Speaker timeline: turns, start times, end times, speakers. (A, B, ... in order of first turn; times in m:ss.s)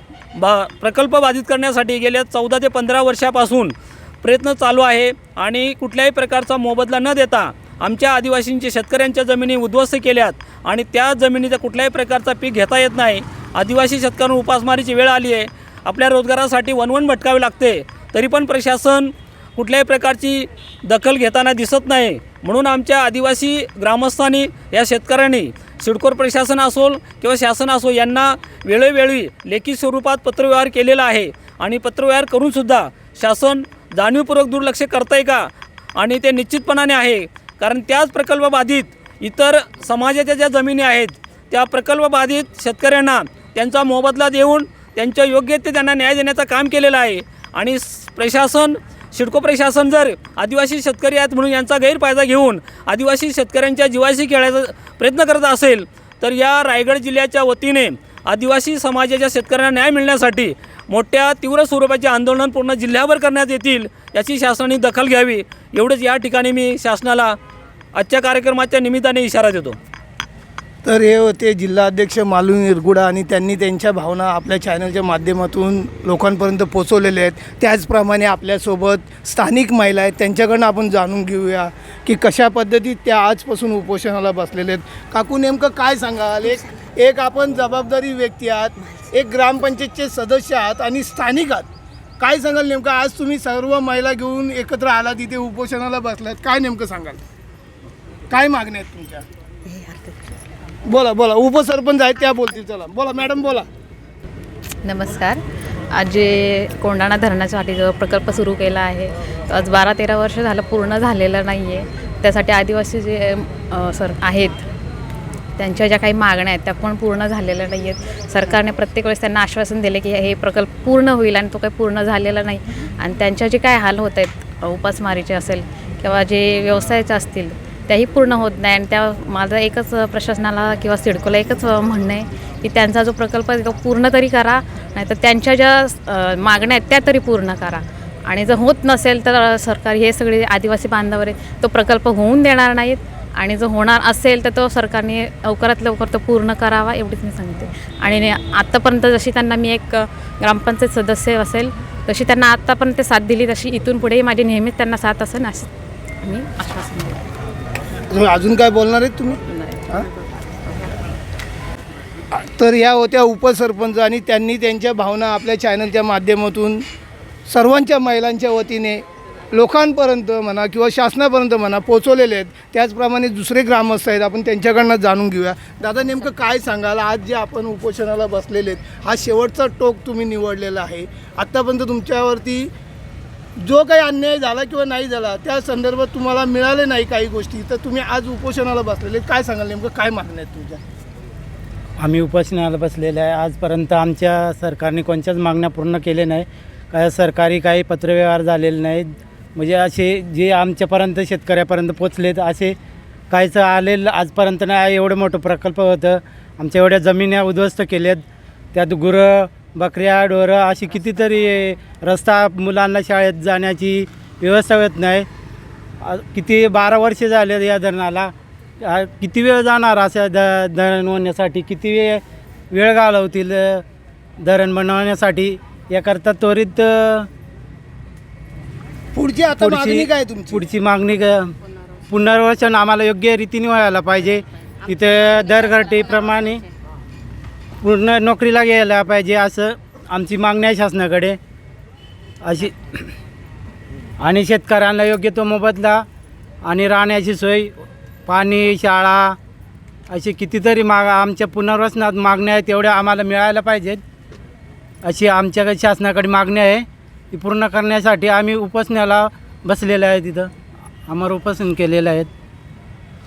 0:00.3-1:07.4 A
1:07.9-1:09.8 A
1:10.8-1:31.6 B
1:32.2-1:37.2 B
1:38.3-1:39.2 B
1:39.7-1:40.1 C
1:40.9-1:43.6 B
1:44.8-1:45.4 C
1:45.9-1:54.6 C
1:55.6-2:35.7 C
2:36.2-2:37.2 C
2:38.1-2:40.1 B
2:39.5-2:40.5 C
2:42.3-2:46.8 B
2:47.5-3:02.7 B
3:03.6-3:10.8 B
3:12.0-3:22.7 D
3:23.3-3:28.2 D
3:28.7-3:35.2 D
3:36.1-3:38.3 D
3:38.9-3:42.2 D
3:42.7-3:43.8 D
3:44.4-3:47.2 D
3:49.1-3:50.6 B
3:49.6-3:50.0 D
3:50.6-3:51.5 D
3:52.1-3:56.6 D
3:57.8-4:01.4 D
4:02.4-4:03.1 D
4:04.2-4:06.0 D
4:06.7-4:07.7 D
4:08.3-4:09.4 D
4:10.1-4:14.0 D
4:15.1-4:20.5 D
4:21.1-4:22.3 D